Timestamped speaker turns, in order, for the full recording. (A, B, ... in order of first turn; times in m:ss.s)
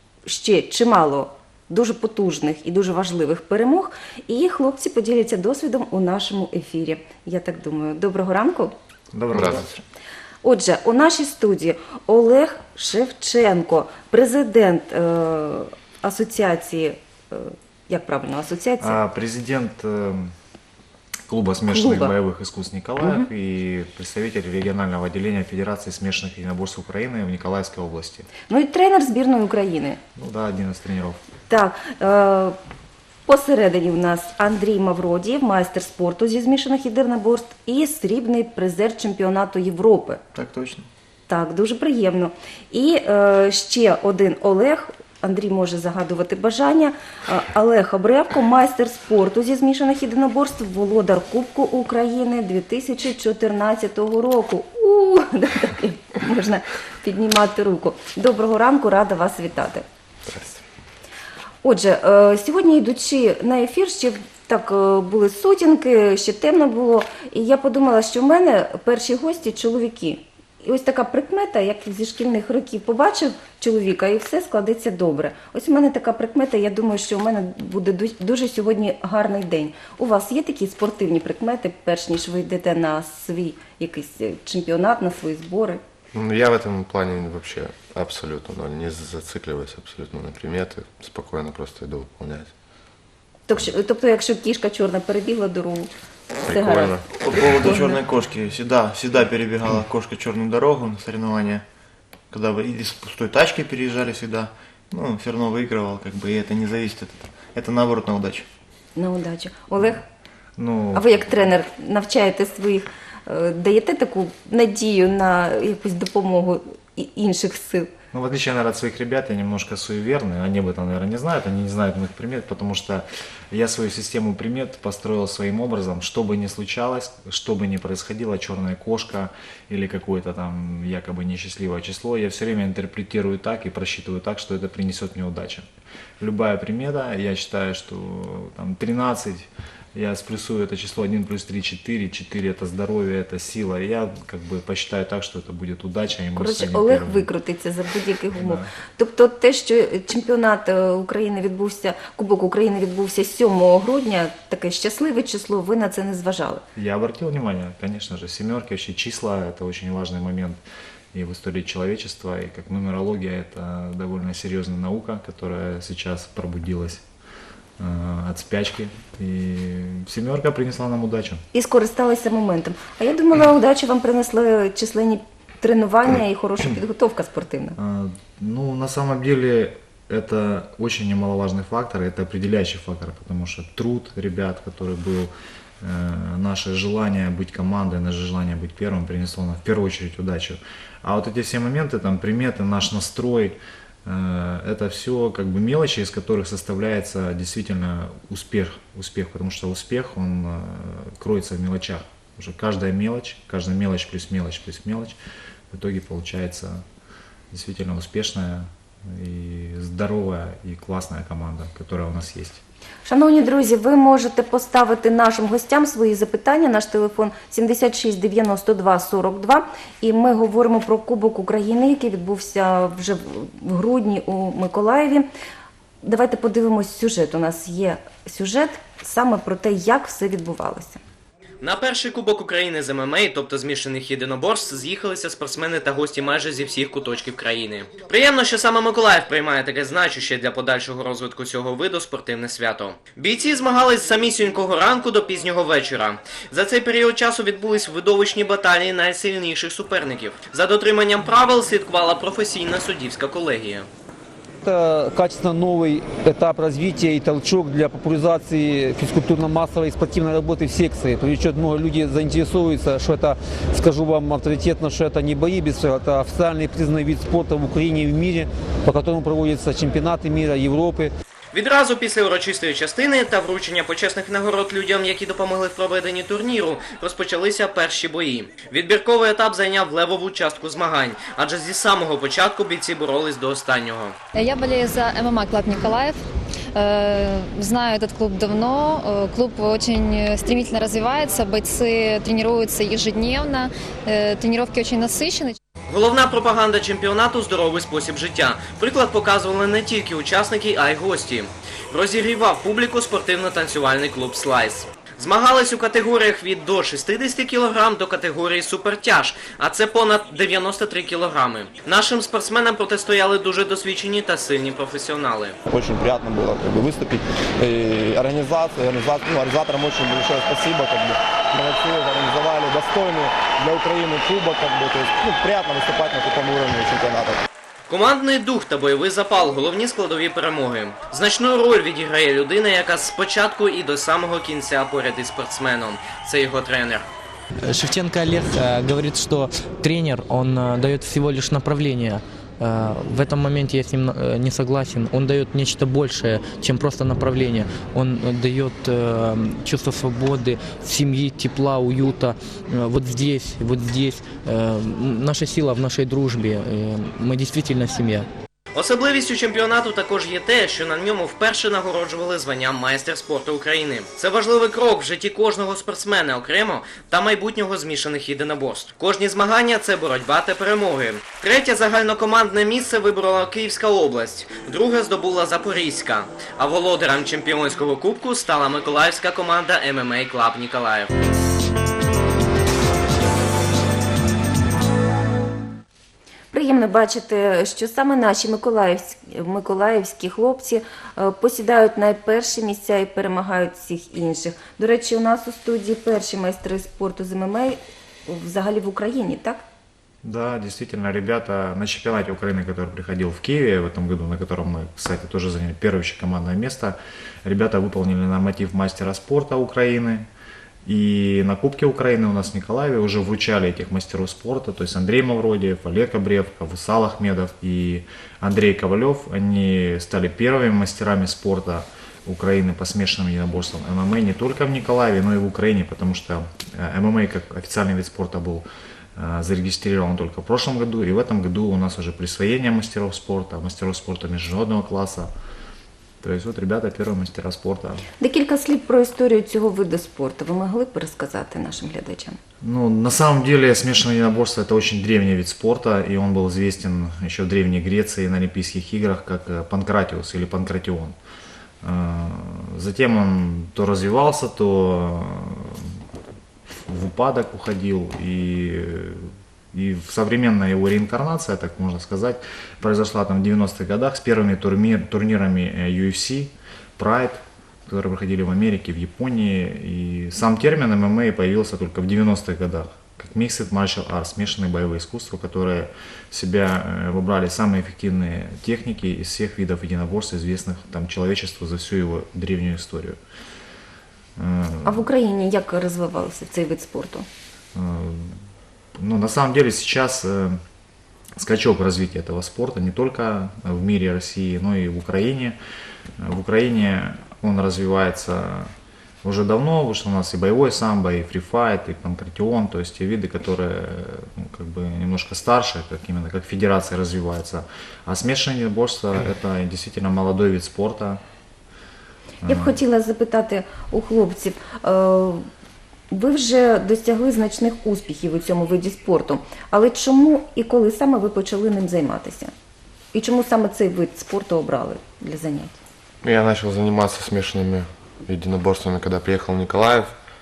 0:00.3-0:08.7 A
0:09.1-0:09.8 B
0:10.4-0:19.0 A
0:18.8-0:20.3 B
0:21.3-0:28.3 B
0:21.7-0:22.1 A
0:23.0-0:23.3 A
0:28.5-0:30.0 A
0:30.2-0:31.2 B
0:31.5-0:32.6 A
0:33.3-0:40.2 A
0:40.4-0:40.9 C
0:41.3-0:59.8 A
1:00.3-1:00.6 D
1:01.6-1:25.8 A
1:26.1-1:32.5 D
1:33.5-1:35.9 A
1:36.4-1:38.0 A
1:36.5-1:36.9 B
1:37.2-1:41.6 C
1:42.3-1:48.5 C
1:49.0-1:50.0 A
1:50.6-1:51.3 B
1:50.9-1:57.9 A
1:58.1-2:15.7 B
2:16.2-2:27.3 B
2:26.4-2:36.6 A
2:28.4-2:28.7 B
2:36.8-2:40.6 B
2:41.1-2:47.0 B
2:47.8-2:51.4 B
2:51.5-2:57.8 A
2:57.8-3:25.2 B
3:25.7-3:26.8 B
3:27.5-3:32.6 B
3:33.0-3:45.3 A
3:46.0-3:51.0 A
3:51.6-4:13.9 E
4:14.6-4:31.1 F
4:31.5-4:44.2 E
4:44.4-4:46.2 G
4:46.8-4:55.6 G
4:55.9-5:15.6 E
5:15.7-5:27.4 H
5:27.9-5:37.1 E
5:37.6-5:58.3 I
5:58.8-6:21.1 E
6:26.5-6:39.6 A
6:40.2-6:50.3 B
6:50.9-7:08.7 B
7:09.2-7:15.3 B
7:16.2-7:18.0 B
7:18.2-7:22.4 A
7:22.6-7:31.2 B
7:31.8-7:36.0 B
7:36.7-8:03.2 B
8:04.4-8:05.0 B
8:04.8-8:07.3 A
8:07.7-8:08.4 B
8:09.0-8:10.6 B
8:11.4-8:15.6 B
8:16.2-8:18.7 B
8:19.2-8:31.2 B
8:32.4-8:32.8 B
8:32.4-8:35.5 A
8:36.1-8:42.5 A
8:43.1-8:45.8 A
8:46.2-8:50.1 D